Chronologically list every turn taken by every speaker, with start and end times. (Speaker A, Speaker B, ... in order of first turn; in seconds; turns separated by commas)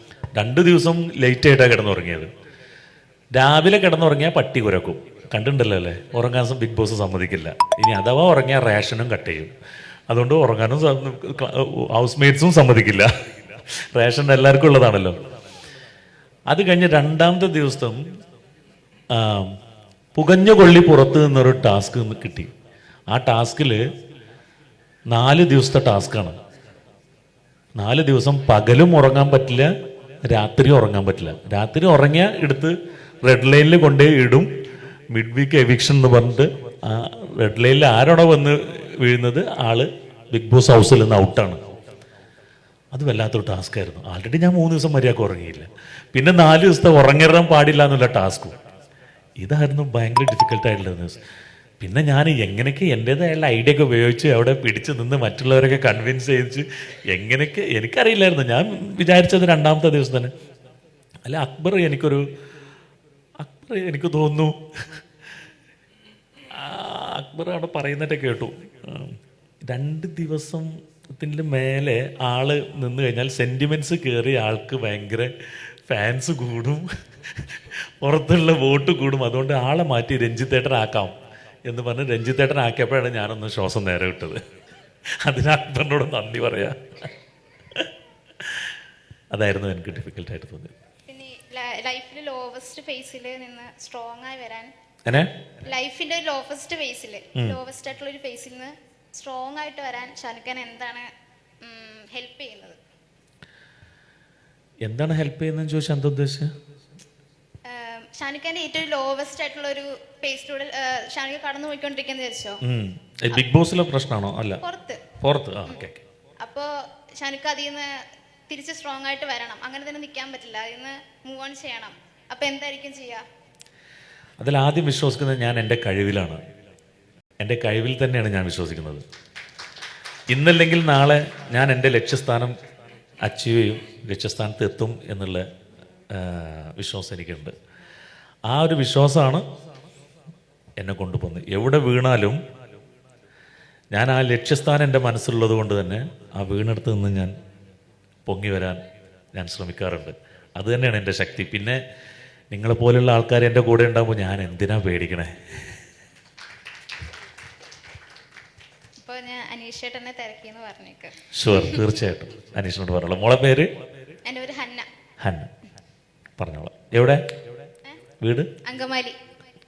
Speaker A: 0.3-2.3, Speaker A: 3.3-9.5, Speaker A: 10.1-15.2, Speaker A: 16.5-18.0, Speaker A: 19.1-19.6, Speaker A: 20.1-22.5, Speaker A: 23.1-23.8, Speaker A: 25.1-26.4, Speaker A: 27.8-29.7, Speaker A: 30.2-34.5, Speaker A: 35.1-41.6, Speaker A: 42.9-48.6, Speaker A: 49.4-51.2, Speaker A: 51.8-60.3, Speaker A: 61.2-62.3, Speaker A: 63.4-64.6, Speaker A: 66.5-81.1, Speaker A: 81.7-84.4, Speaker A: 85.1-87.1, Speaker A: 88.4-88.7, Speaker A: 89.3-90.7, Speaker B: 91.1-94.7, Speaker A: 95.1-95.4, Speaker B: 95.6-101.1, Speaker B: 101.6-102.8, Speaker A: 104.8-106.5, Speaker B: 107.7-112.6, Speaker A: 112.6-114.6, Speaker B: 114.6-115.0, Speaker A: 115.2-116.0, Speaker B: 116.4-123.2, Speaker A: 124.4-126.4, Speaker A: 127.4-129.1, Speaker A: 130.3-132.6, Speaker A: 133.2-135.5, Speaker A: 136.1-137.6, Speaker A: 138.5-139.4, Speaker A: 140.8-142.4, Speaker A: 143.9-147.3, Speaker A: 148.3-151.8, Speaker A: 152.5-155.7, Speaker B: 159.0-161.8, Speaker A: 161.3-163.7, Speaker B: 164.2-164.9, Speaker A: 165.2-165.5, Speaker A: 166.4-167.2, Speaker A: 168.2-168.5, Speaker B: 168.6-169.2